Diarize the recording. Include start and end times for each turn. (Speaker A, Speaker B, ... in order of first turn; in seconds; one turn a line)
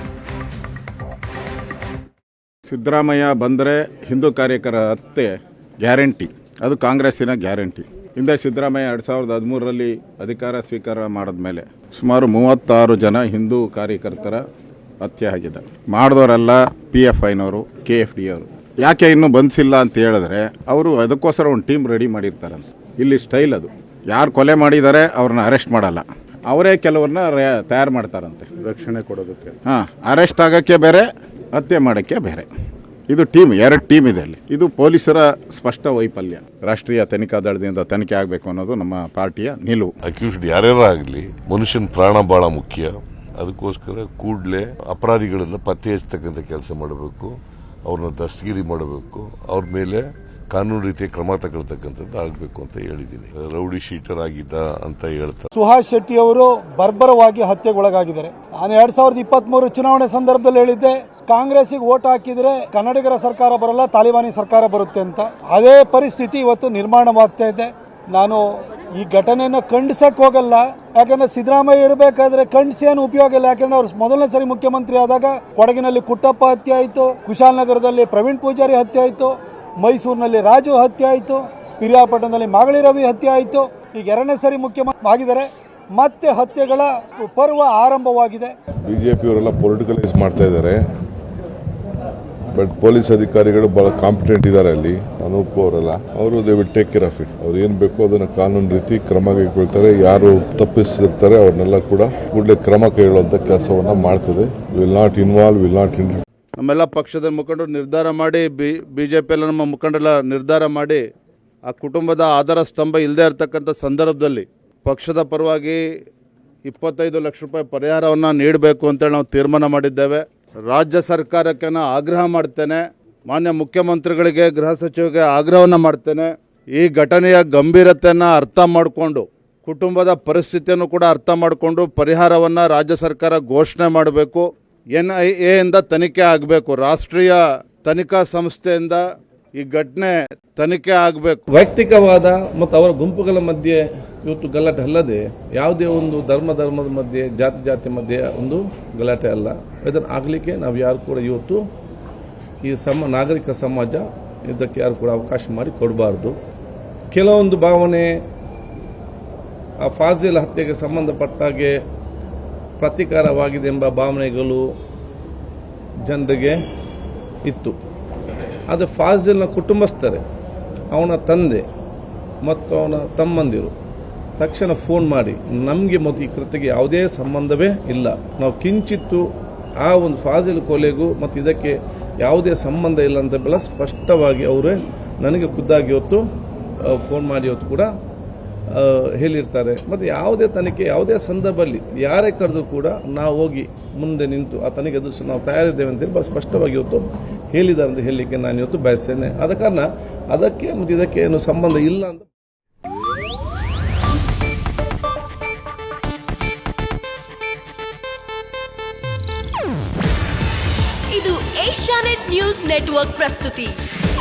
Speaker A: 2.7-14.4
Speaker A: 15.0-28.5
Speaker B: 28.7-29.4
Speaker A: 29.6-32.5
Speaker A: 33.1-39.9
Speaker C: 40.0-47.3
Speaker C: 47.8-55.5
Speaker D: 55.5-88.5
Speaker E: 88.9-90.8
Speaker E: 92.5-106.2
Speaker B: 106.8-108.5
Speaker B: 109.0-110.9
Speaker B: 111.7-115.7
Speaker B: 116.7-120.1
Speaker B: 120.8-122.7
Speaker B: 123.3-126.2
Speaker B: 126.8-134.4
Speaker B: 135.0-139.0
Speaker B: 139.6-141.4
Speaker F: 141.5-151.6
Speaker F: 152.6-156.3
Speaker F: 157.1-158.1
Speaker F: 159.8-161.7
Speaker F: 162.8-164.7
Speaker F: 166.1-166.6
Speaker F: 167.5-167.8
Speaker F: 168.7-170.2
Speaker F: 170.9-171.6
Speaker F: 172.4-173.7
Speaker F: 174.4-179.2
Speaker F: 179.8-186.2
Speaker F: 186.9-187.9
Speaker F: 188.7-202.2
Speaker G: 211.1-213.8